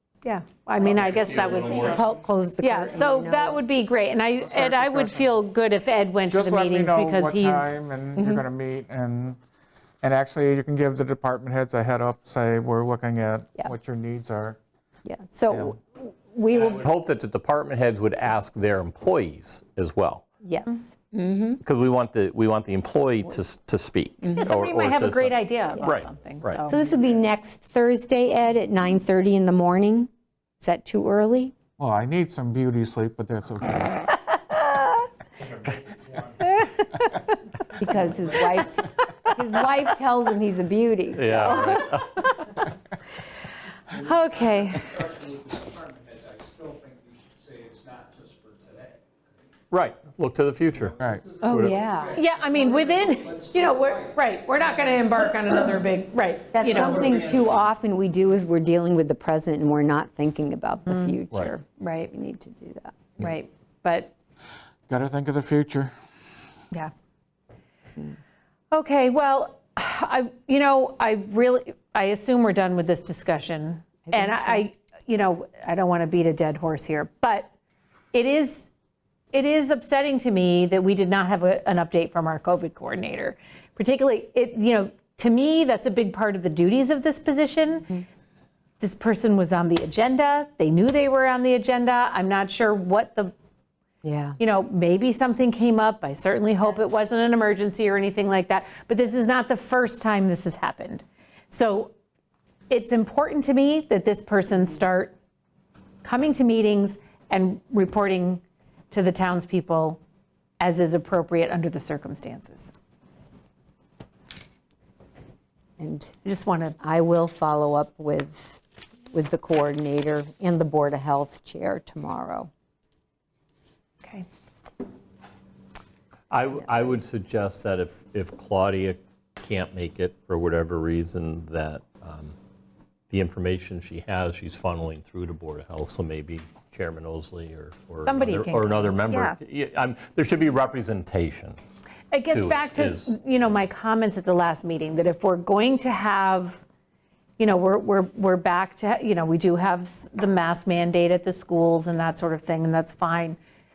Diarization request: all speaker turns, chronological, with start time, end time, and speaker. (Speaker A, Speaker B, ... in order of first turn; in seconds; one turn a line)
Speaker A: 0.2-1.9
Speaker B: 0.8-2.2
Speaker C: 1.4-2.1
Speaker D: 1.6-3.6
Speaker A: 2.6-7.8
Speaker C: 4.4-5.3
Speaker C: 6.3-9.4
Speaker D: 8.2-8.5
Speaker C: 10.0-14.6
Speaker D: 15.1-16.9
Speaker E: 16.6-20.2
Speaker D: 20.4-21.6
Speaker E: 21.6-26.8
Speaker D: 24.2-24.5
Speaker A: 24.4-26.8
Speaker D: 26.7-31.5
Speaker C: 31.8-34.1
Speaker B: 35.4-36.4
Speaker D: 37.8-42.1
Speaker B: 38.0-38.5
Speaker E: 41.1-42.3
Speaker B: 43.8-49.3
Speaker A: 44.0-44.9
Speaker E: 49.7-51.8
Speaker B: 50.7-55.6
Speaker D: 51.4-52.2
Speaker A: 52.1-56.9
Speaker D: 56.5-63.2
Speaker B: 56.5-57.7
Speaker A: 61.8-62.1
Speaker A: 63.2-64.1
Speaker C: 64.9-65.9
Speaker A: 68.7-77.5
Speaker D: 74.1-74.6
Speaker A: 78.1-78.7
Speaker A: 79.3-88.0
Speaker A: 88.8-93.3
Speaker D: 94.0-94.4
Speaker A: 94.4-101.9
Speaker A: 102.7-105.1
Speaker A: 106.0-110.0
Speaker A: 110.6-112.7
Speaker D: 115.8-116.2
Speaker A: 116.2-116.8
Speaker D: 116.8-118.6
Speaker D: 119.1-122.5
Speaker E: 126.3-132.3
Speaker E: 133.1-141.6
Speaker A: 138.1-139.4
Speaker A: 142.1-146.6
Speaker E: 142.3-143.2
Speaker A: 147.4-153.4